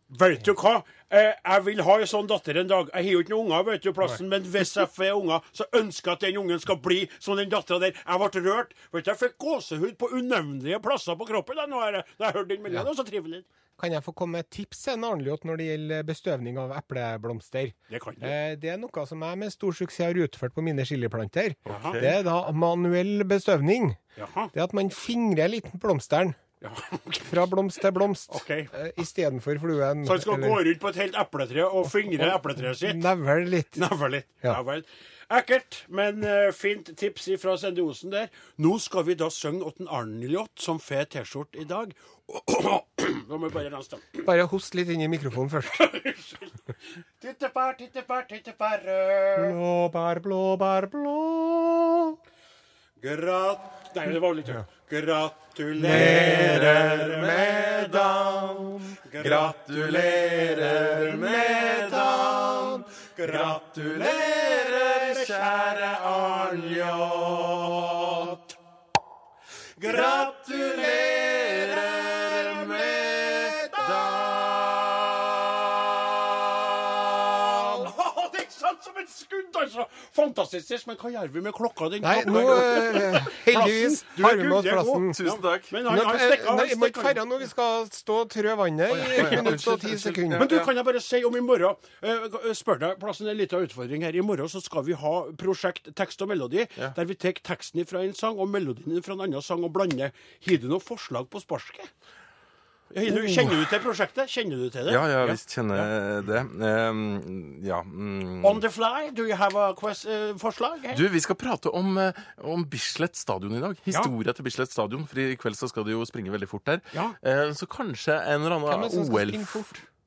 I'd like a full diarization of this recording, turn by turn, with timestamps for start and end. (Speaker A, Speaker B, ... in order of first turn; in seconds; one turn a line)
Speaker A: 0.1-13.4
Speaker B: 13.8-24.0
Speaker A: 17.9-18.3
Speaker C: 21.7-22.2
Speaker A: 21.7-22.0
Speaker A: 24.2-24.5
Speaker B: 24.5-26.4
Speaker A: 26.6-27.5
Speaker B: 27.3-30.6
Speaker A: 28.3-28.7
Speaker A: 30.0-33.0
Speaker B: 32.1-33.8
Speaker A: 33.7-44.2
Speaker B: 44.2-45.9
Speaker A: 45.7-46.6
Speaker A: 47.2-49.6
Speaker B: 49.6-52.1
Speaker A: 53.0-57.6
Speaker C: 55.8-68.4
Speaker B: 55.9-58.5
Speaker A: 59.0-60.9
Speaker A: 63.2-65.5
Speaker A: 69.8-74.2
Speaker C: 69.8-76.1
Speaker C: 76.7-77.9
Speaker A: 76.9-87.2
Speaker B: 82.0-85.2
Speaker C: 85.2-85.8
Speaker B: 85.8-90.5
Speaker C: 88.9-90.7
Speaker A: 89.1-89.6
Speaker A: 90.3-101.9
Speaker A: 102.9-105.9
Speaker C: 103.1-103.7
Speaker C: 104.9-108.6
Speaker A: 108.4-111.0
Speaker C: 110.9-119.8
Speaker B: 118.7-119.8